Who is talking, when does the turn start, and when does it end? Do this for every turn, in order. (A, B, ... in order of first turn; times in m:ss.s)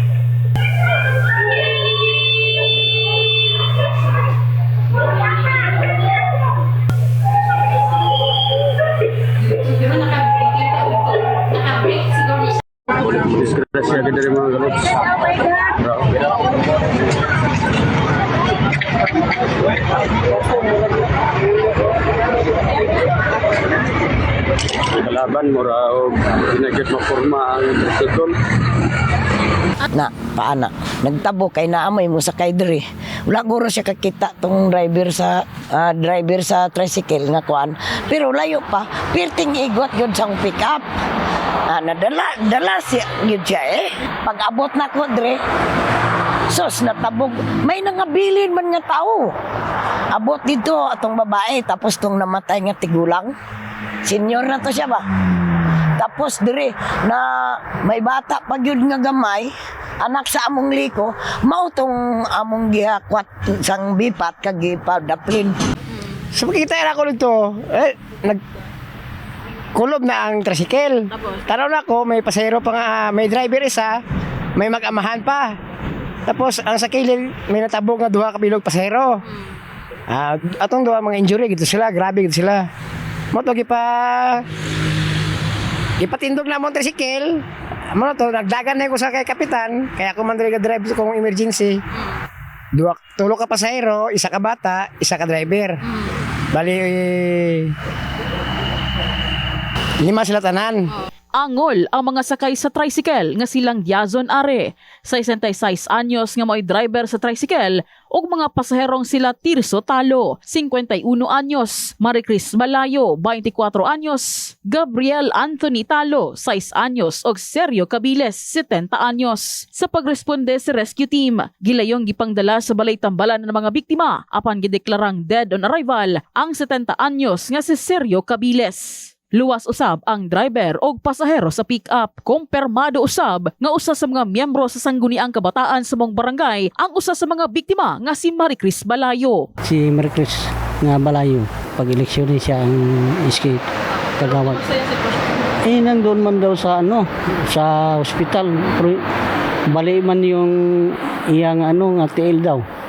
0:09.5-0:12.6 A
0:12.9-0:16.3 B
0:24.9-0:28.3 B
0:29.9-0:40.8 C
0:41.7-0:45.4 C
0:46.5-0:49.3 C
0:50.1-0:53.3 C
0:54.0-0:55.1 C
0:55.6-1:05.6 C
1:06.3-1:08.4 D
1:09.7-1:14.0 D
1:11.1-1:11.4 A
1:14.6-1:15.6 D
1:16.3-1:19.2 D
1:20.1-1:22.7 D
1:23.3-1:24.4 D
1:26.0-1:27.4 D
1:27.9-1:31.8 D
1:32.7-1:35.8 D
1:36.5-1:37.7 D
1:40.0-1:40.9 D
1:41.3-2:19.5 A
2:19.6-2:24.6 E
2:23.9-2:25.5 A
2:25.6-2:29.0 E
2:29.7-2:32.6 E